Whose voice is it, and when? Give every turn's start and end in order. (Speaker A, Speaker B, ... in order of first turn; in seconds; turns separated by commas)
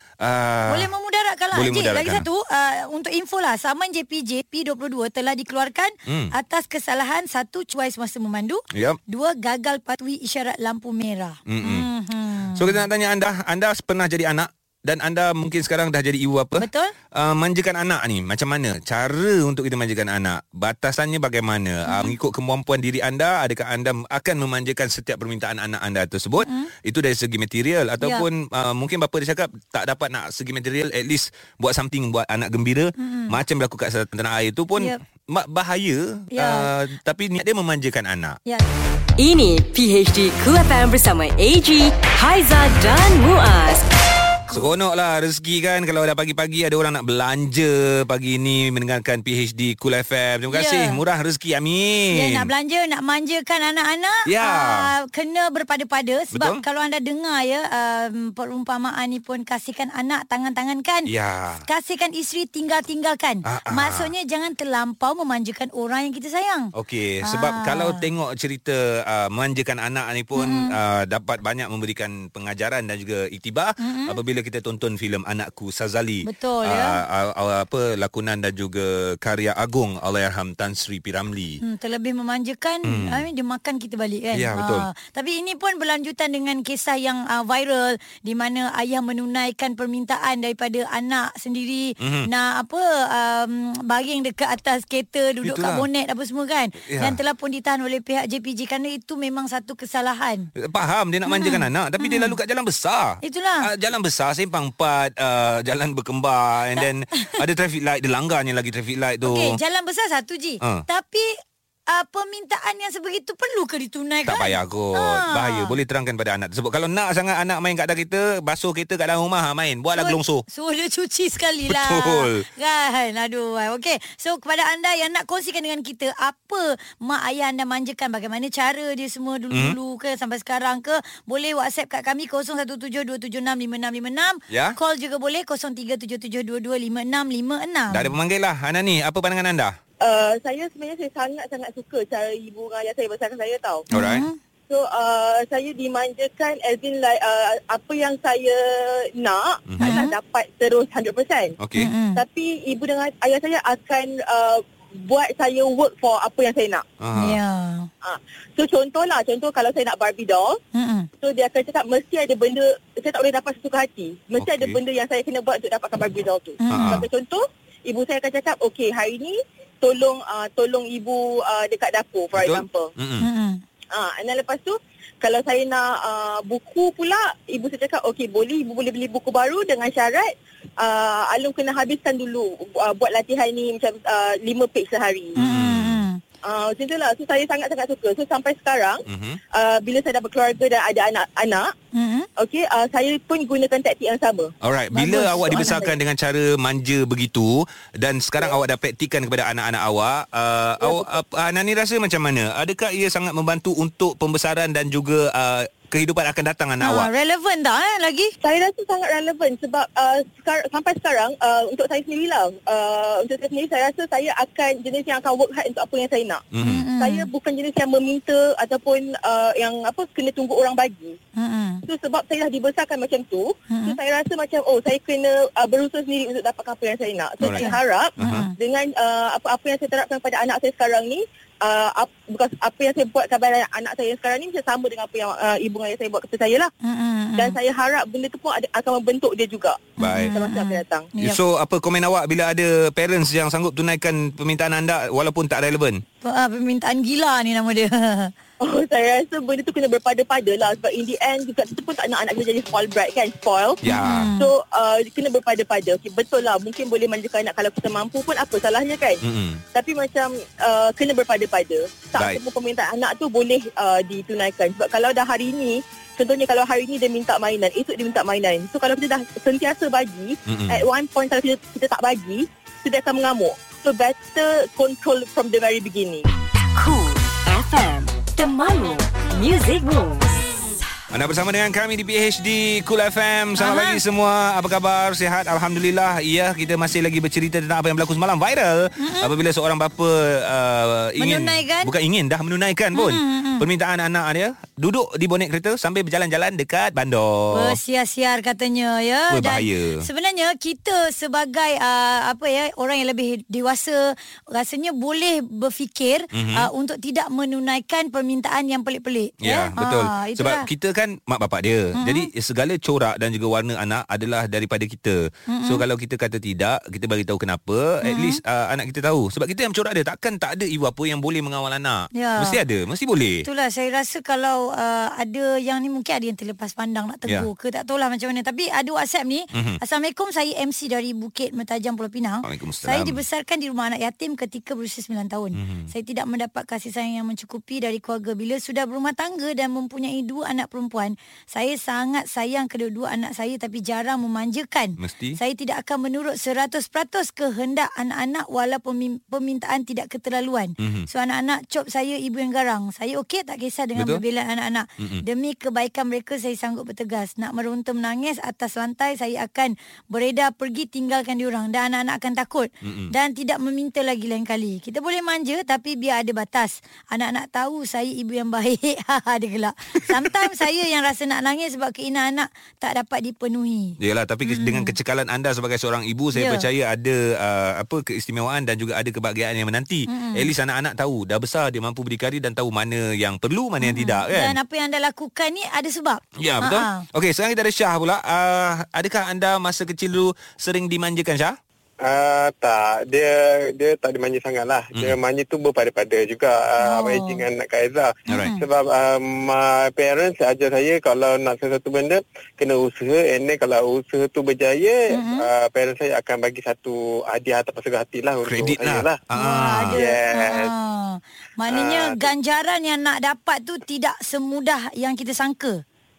Speaker A: 0.2-0.9, Speaker B: 0.7-12.7, Speaker A: 1.5-2.2, Speaker A: 6.1-6.3, Speaker A: 8.7-9.0, Speaker A: 11.5-11.9, Speaker A: 12.5-38.4, Speaker B: 16.6-16.9, Speaker B: 21.9-22.1, Speaker B: 26.4-26.7, Speaker B: 33.0-33.4, Speaker B: 36.3-36.7, Speaker C: 39.2-43.8, Speaker A: 44.5-52.5, Speaker B: 50.5-51.0, Speaker B: 52.1-61.1, Speaker A: 54.2-54.9, Speaker A: 56.3-56.6, Speaker A: 61.1-61.6, Speaker B: 61.6-66.7, Speaker A: 63.4-64.1, Speaker A: 66.7-81.6, Speaker B: 67.2-68.0, Speaker B: 70.4-70.7, Speaker B: 73.8-74.2, Speaker B: 76.2-77.0, Speaker B: 81.6-100.5, Speaker A: 82.8-83.2, Speaker A: 84.3-84.9, Speaker A: 92.0-92.3, Speaker A: 95.4-95.8, Speaker A: 96.8-97.2, Speaker A: 100.6-109.6, Speaker B: 101.3-102.3, Speaker B: 103.2-103.7, Speaker B: 109.2-111.3, Speaker B: 111.9-115.7, Speaker A: 114.2-120.4, Speaker B: 120.0-138.1, Speaker A: 121.7-122.4, Speaker A: 129.5-129.8, Speaker A: 134.5-134.8, Speaker A: 137.9-139.8, Speaker D: 140.0-143.8, Speaker A: 143.9-144.2, Speaker B: 143.9-144.3, Speaker D: 144.7-151.6, Speaker A: 149.7-150.0, Speaker B: 149.8-150.1, Speaker A: 151.6-151.9, Speaker B: 151.8-152.2, Speaker D: 152.1-156.8, Speaker A: 157.0-157.4, Speaker B: 157.2-157.9, Speaker D: 158.0-160.6, Speaker B: 160.7-161.1, Speaker D: 161.2-172.9, Speaker A: 164.4-164.8, Speaker B: 166.6-167.0, Speaker A: 166.7-167.1, Speaker A: 172.3-173.3, Speaker B: 173.2-173.6, Speaker D: 173.9-185.3, Speaker B: 185.4-186.2, Speaker A: 185.4-186.0, Speaker D: 186.4-189.0, Speaker A: 189.1-189.4, Speaker D: 189.5-191.7, Speaker B: 191.9-192.3, Speaker D: 192.4-194.5, Speaker A: 194.6-207.1, Speaker B: 194.9-195.9, Speaker D: 200.8-201.1, Speaker B: 206.8-208.3, Speaker D: 208.4-216.4, Speaker A: 216.5-216.8, Speaker B: 216.6-217.3, Speaker D: 217.0-221.2, Speaker B: 221.4-221.8, Speaker D: 221.9-236.7, Speaker B: 223.7-224.0, Speaker A: 227.4-228.5, Speaker B: 227.4-228.5, Speaker B: 236.8-237.6, Speaker D: 237.4-241.1, Speaker B: 240.0-241.4, Speaker A: 240.0-240.3, Speaker A: 241.2-246.0, Speaker B: 246.2-248.3, Speaker D: 248.6-253.8, Speaker A: 253.8-254.3, Speaker B: 254.0-254.5, Speaker D: 254.4-259.2, Speaker A: 259.2-259.6, Speaker D: 259.7-276.2, Speaker A: 270.5-270.8, Speaker C: 276.7-280.4, Speaker A: 281.1-297.8, Speaker B: 283.6-284.0, Speaker B: 289.0-289.3, Speaker B: 291.2-291.9, Speaker B: 292.9-293.6, Speaker B: 297.5-310.6, Speaker A: 299.3-300.0, Speaker A: 306.3-306.7, Speaker A: 309.4-323.4, Speaker B: 311.9-312.3, Speaker B: 315.5-315.8, Speaker B: 318.0-318.4, Speaker B: 322.1-322.6, Speaker B: 323.4-374.9, Speaker A: 329.5-329.8, Speaker A: 332.4-333.2, Speaker A: 335.5-335.9, Speaker A: 345.0-345.4, Speaker A: 350.8-351.1, Speaker A: 353.9-354.2, Speaker A: 362.8-363.1, Speaker A: 374.0-384.6, Speaker B: 376.3-376.6, Speaker B: 380.1-380.5, Speaker B: 383.8-387.0, Speaker A: 386.4-391.6, Speaker E: 392.0-409.1, Speaker B: 396.8-397.4, Speaker B: 398.3-398.6, Speaker B: 405.1-405.4, Speaker A: 408.4-410.0, Speaker B: 409.4-415.8, Speaker E: 409.9-410.7, Speaker E: 411.7-412.3